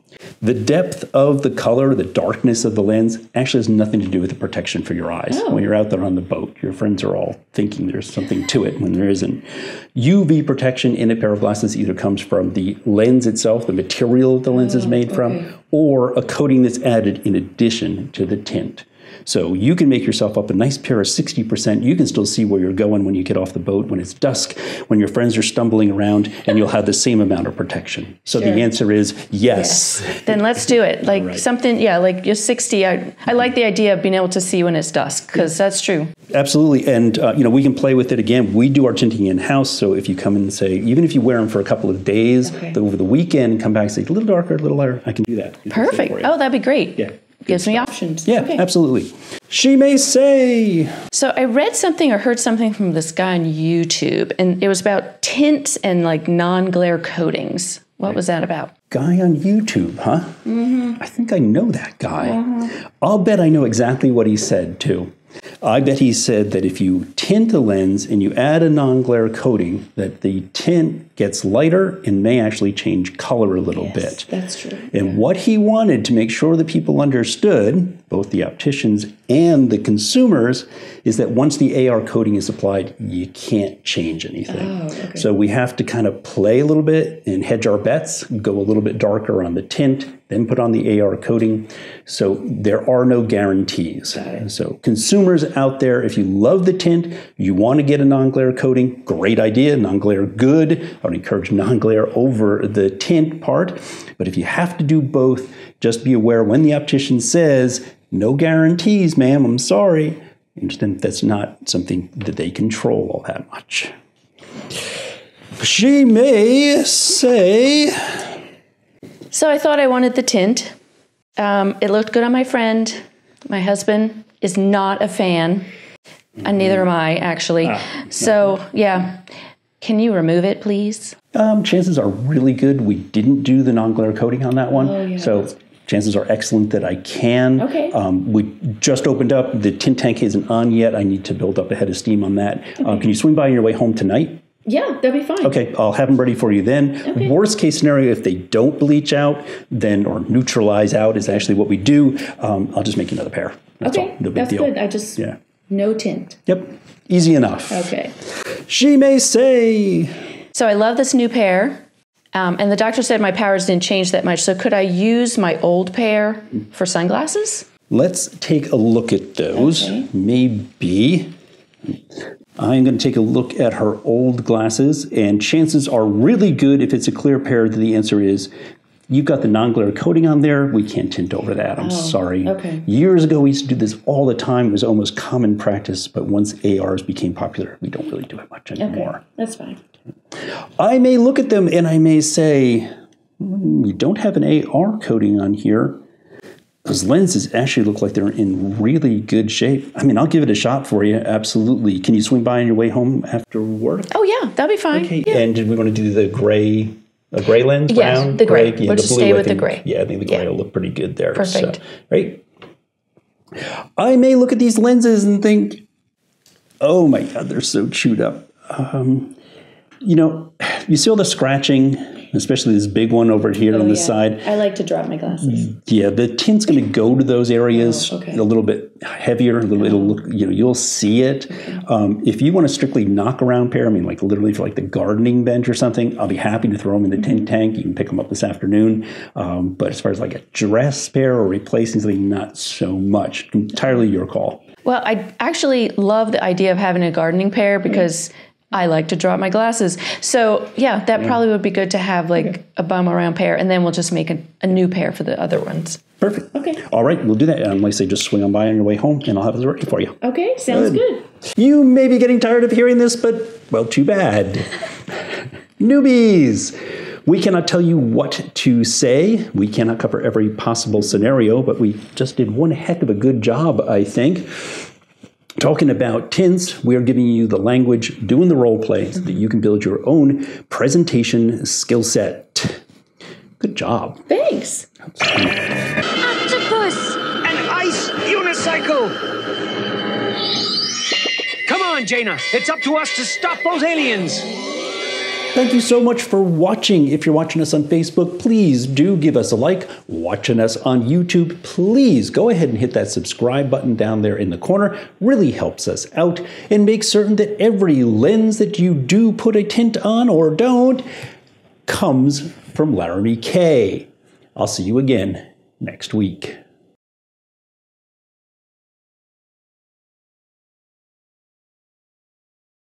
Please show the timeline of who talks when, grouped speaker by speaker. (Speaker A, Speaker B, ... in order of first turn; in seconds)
Speaker A: 0.4-30.4, 31.1-31.4, 36.3-46.4, 47.0-51.0, 58.9-65.1, 65.6-74.3, 74.9-113.9, 115.6-118.3, 127.8-128.4, 131.3-144.4, 145.4-155.4, 156.5-157.9, 158.7-160.1, 167.9-171.3, 172.6-178.5, 179.1-189.2, 190.8-196.0, 196.8-204.1, 204.9-212.4, 214.0-215.8, 216.8-219.3, 220.0-224.5, 225.5-244.6, 256.2-260.2, 260.7-261.0, 261.6-264.8, 265.8-274.9, 275.6-282.8, 283.6-284.3, 285.1-285.6, 295.6-311.1, 311.9-316.6
Speaker B: 5.3-5.6, 14.6-15.4, 28.4-28.6, 29.5-36.1, 45.7-48.6, 51.1-58.7, 62.2-62.7, 73.8-75.1, 84.5-85.2, 119.3-120.7, 121.4-125.7, 126.4-129.2, 129.8-131.2, 134.7-135.5, 137.6-138.0, 144.7-145.5, 147.1-147.3, 153.8-156.4, 157.7-158.1, 160.5-161.8, 162.3-167.7, 169.5-170.1, 181.8-182.9, 188.8-189.8, 204.1-205.4, 207.9-210.4, 211.4-211.8, 223.6-225.7, 227.8-228.4, 244.8-256.0, 260.2-261.2, 284.3-284.9, 286.3-287.1
Speaker C: 287.4-289.2, 291.7-294.4